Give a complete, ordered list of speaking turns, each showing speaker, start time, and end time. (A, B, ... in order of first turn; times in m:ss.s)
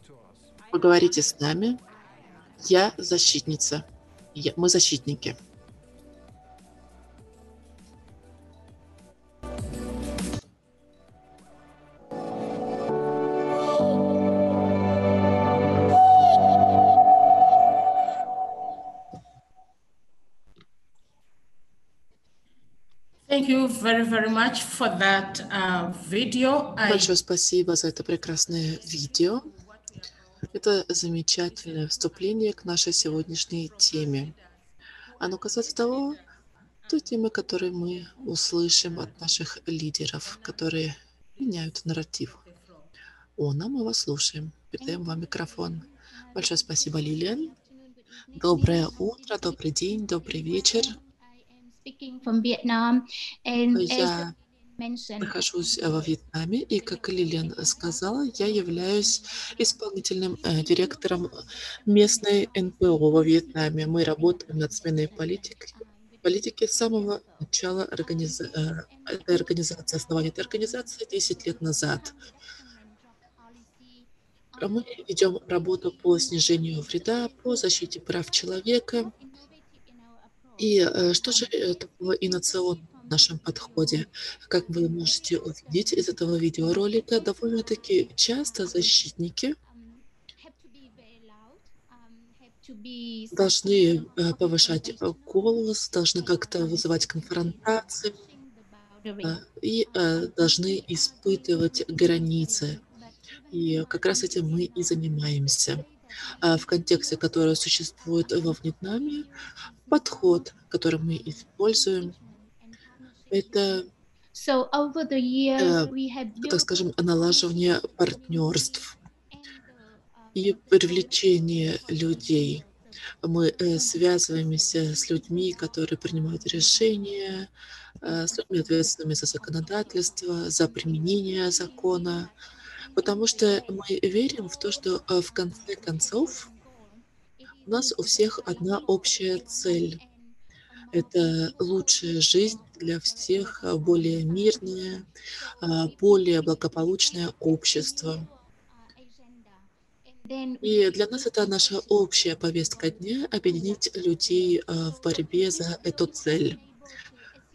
0:00.7-0:01.8 A
0:02.6-0:05.4 A
0:23.3-0:27.1 B
0:26.8-0:29.5 A
0:30.5-0:34.4 A
0:35.2-0:36.2 A
0:36.9-0:42.4 A
0:42.5-0:42.9 B
0:43.4-0:47.5 A
0:48.4-0:51.0 A
0:51.8-0:54.3 C
0:53.8-0:54.3 A
0:54.8-0:55.4 C
0:55.2-1:05.7 A
1:06.2-1:12.1 A
1:14.6-1:19.1 A
1:20.6-1:29.6 A
1:32.6-1:33.6 C
1:33.3-1:38.1 A
1:39.0-1:39.4 C
1:39.2-1:42.8 A
1:43.5-1:45.9 A
1:46.4-1:49.3 A
1:49.9-1:52.1 A
1:53.3-1:53.9 A
1:54.4-1:56.7 C
1:55.6-1:58.9 A
2:00.4-2:02.6 A
2:03.2-2:07.5 A
2:08.0-2:12.3 A
2:12.9-2:16.5 A
2:17.7-2:20.0 A
2:20.9-2:25.0 A
2:25.6-2:28.3 A
2:30.2-2:30.6 C
2:30.6-2:36.6 A